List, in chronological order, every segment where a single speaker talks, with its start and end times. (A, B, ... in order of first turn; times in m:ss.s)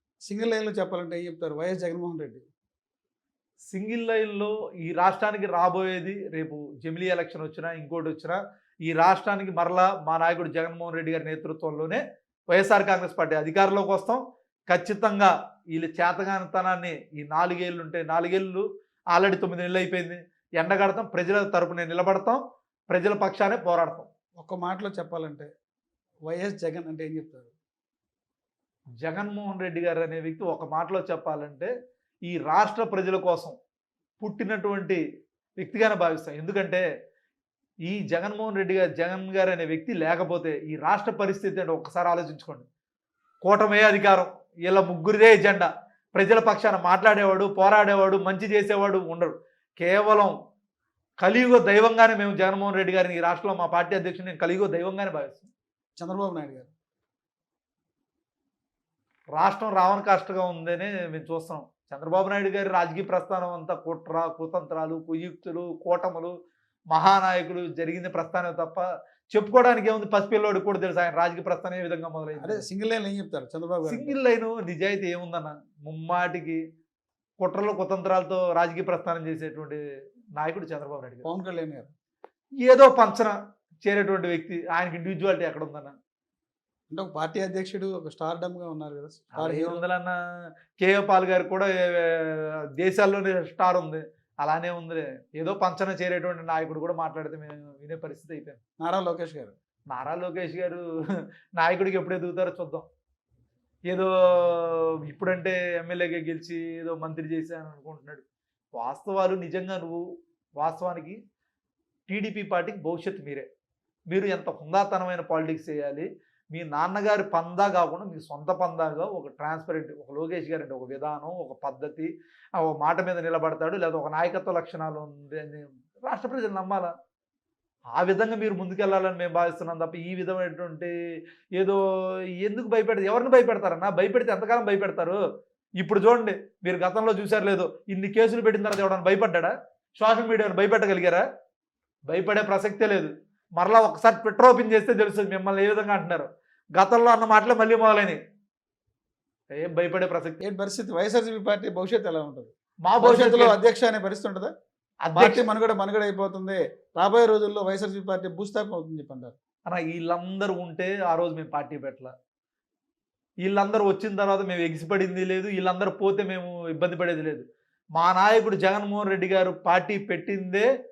0:00.3-0:02.4 A
0:03.7-0:22.4 B
0:22.9-0:24.1 B
0:24.4-0:25.5 A
0:26.3-0:27.5 A
0:29.0-0:31.7 B
0:32.3-0:33.6 B
0:34.2-0:35.0 B
0:35.6-0:36.8 B
0:37.9-0:42.6 B
0:43.4-0:50.3 B
0:51.2-0:55.5 B
0:56.0-0:56.7 A
0:59.4-1:06.3 B
1:06.9-1:12.6 B
1:12.4-1:14.2 A
1:13.9-1:16.6 B
1:17.4-1:19.8 B
1:20.4-1:21.2 B
1:21.2-1:21.9 A
1:22.6-1:26.0 B
1:26.9-1:29.8 A
1:29.4-1:30.2 B
1:30.8-1:38.6 B
1:38.8-1:39.5 A
1:39.9-1:40.8 B
1:41.6-1:42.9 B
1:43.9-1:48.2 B
1:48.8-1:50.0 B
1:50.6-1:51.2 B
1:52.1-1:53.5 B
1:54.1-2:06.9 B
2:08.0-2:10.9 B
2:12.4-2:15.2 B
2:15.8-2:21.2 B
2:22.1-2:28.2 B
2:29.5-2:30.4 B
2:30.4-2:34.5 A
2:32.8-2:33.6 B
2:35.1-2:35.5 B
2:35.2-2:39.4 A
2:39.7-2:42.1 B
2:43.4-2:47.4 B
2:48.0-2:50.7 B